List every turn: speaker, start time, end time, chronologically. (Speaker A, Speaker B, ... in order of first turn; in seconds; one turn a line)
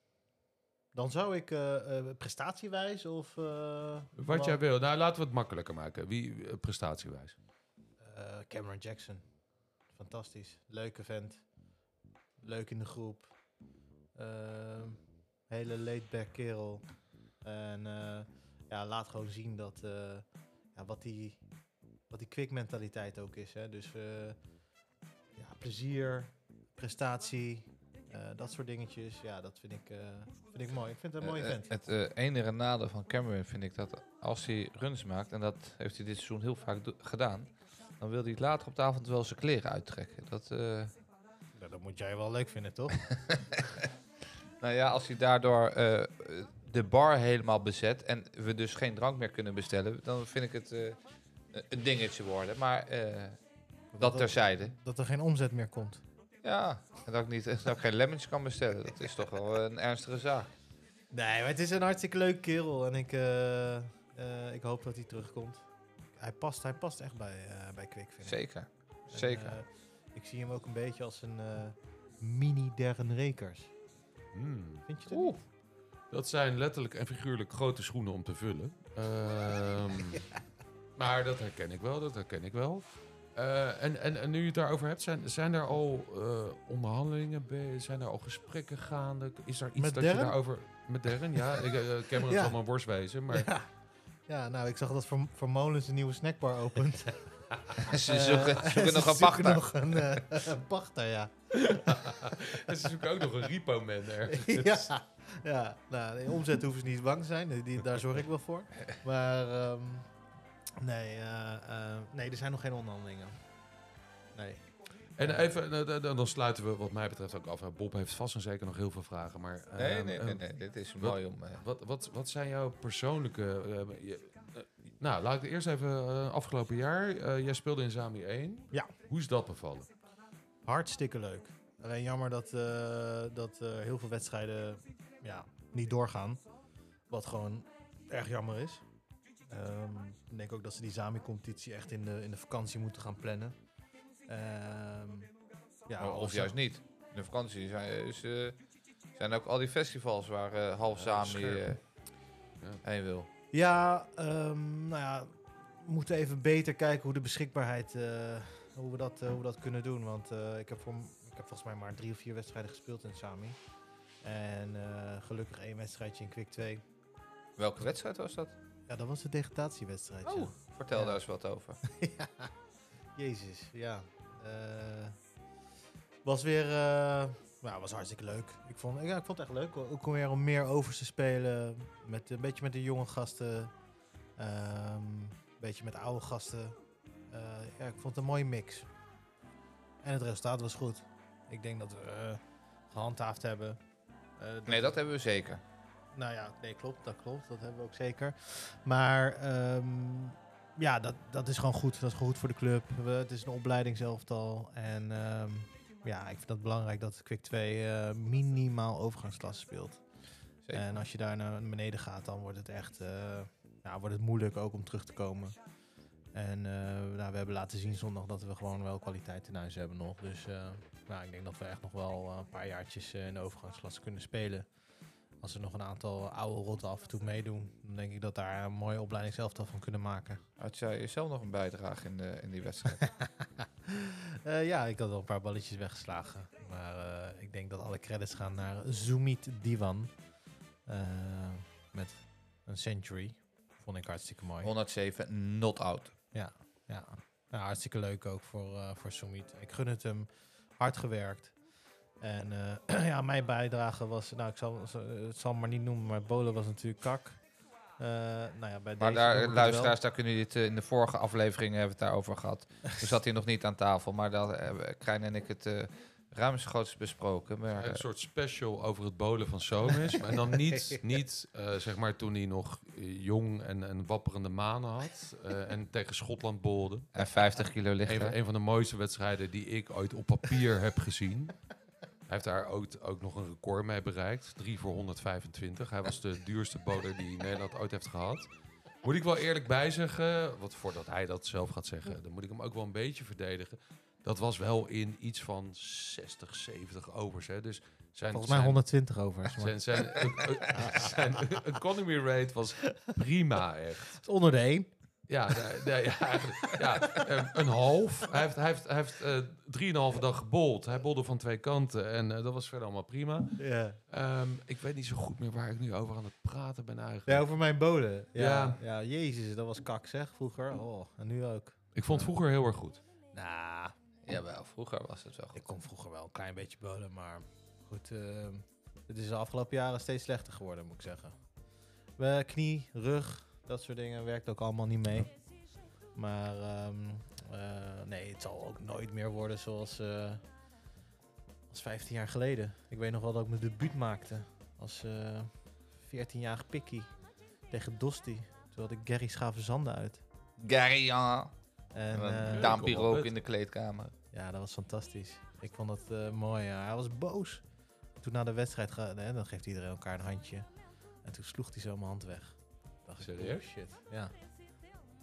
Speaker A: 0.9-4.6
Speaker B: 4.2-7.4
Speaker A: 8.0-9.2
Speaker A: 9.9-11.4
Speaker A: 12.4-13.3
Speaker A: 14.2-16.8
Speaker A: 17.4-21.4
Speaker A: 22.1-24.4
Speaker A: 25.4-31.7
Speaker C: 31.2-40.9
Speaker A: 41.5-43.0
Speaker C: 44.6-51.0
Speaker C: 51.5-53.4
Speaker A: 53.9-56.0
Speaker C: 54.0-54.8
Speaker C: 56.4-60.5
Speaker A: 61.1-68.4
Speaker C: 68.2-69.6
Speaker A: 69.1-73.7
Speaker B: 74.3-75.4
Speaker A: 74.9-75.3
Speaker B: 76.1-80.3
Speaker B: 81.0-93.5
Speaker A: 89.8-90.4
Speaker A: 91.3-92.6
Speaker A: 93.3-93.7
Speaker A: 94.3-103.2
Speaker C: 97.8-99.7
Speaker B: 101.5-104.9
Speaker A: 104.2-110.1
Speaker A: 110.8-113.3
Speaker A: 114.3-114.7
Speaker B: 115.2-120.4
Speaker A: 115.2-115.5
Speaker C: 119.8-121.6
Speaker B: 121.0-129.9
Speaker A: 130.6-136.4
Speaker A: 137.1-138.8
Speaker A: 139.5-143.6
Speaker A: 144.3-145.3
Speaker A: 145.9-146.6
Speaker C: 146.0-148.6
Speaker C: 149.2-151.8
Speaker B: 150.9-151.7
Speaker C: 152.8-153.3
Speaker A: 153.5-163.6
Speaker A: 164.2-166.8
Speaker C: 167.6-168.5
Speaker A: 168.9-171.2
Speaker C: 170.3-171.8
Speaker A: 171.8-172.5
Speaker A: 173.2-175.1
Speaker A: 176.2-183.7
Speaker A: 184.4-186.8
Speaker A: 187.3-188.9
Speaker A: 190.0-192.4
Speaker A: 192.9-193.8
Speaker A: 194.4-195.0
Speaker C: 194.7-195.6
Speaker A: 196.1-210.0
Speaker C: 210.7-210.9
Speaker A: 210.7-215.6
Speaker A: 216.3-224.7
Speaker A: 225.4-230.4
Speaker C: 230.6-233.0
Speaker A: 233.8-240.1
Speaker A: 240.9-244.7
Speaker C: 244.6-246.1
Speaker A: 246.3-250.3
Speaker A: 250.8-251.6
Speaker A: 252.2-257.4
Speaker A: 258.0-260.0
Speaker C: 259.0-268.0
Speaker B: 267.7-277.1
Speaker C: 277.1-278.4
Speaker B: 278.1-281.6
Speaker B: 282.3-288.5
Speaker B: 289.0-298.8
Speaker A: 298.3-301.1
Speaker B: 299.5-304.2
Speaker A: 304.2-304.9
Speaker B: 305.3-313.6
Speaker A: 306.8-307.3
Speaker A: 313.6-314.0
Speaker B: 314.1-317.5
Speaker A: 317.3-322.3
Speaker B: 318.4-318.8
Speaker B: 321.9-323.0
Speaker A: 323.3-323.9
Speaker C: 324.3-325.7
Speaker A: 325.5-331.3
Speaker A: 332.2-335.3
Speaker A: 336.1-340.4
Speaker A: 341.7-345.5
Speaker A: 346.0-347.1
Speaker A: 347.7-350.2
Speaker C: 350.6-351.5
Speaker A: 351.9-352.8
Speaker C: 352.1-354.1
Speaker B: 352.5-353.3
Speaker A: 354.3-357.6
Speaker A: 358.2-360.7
Speaker A: 361.2-364.3
Speaker B: 363.2-363.6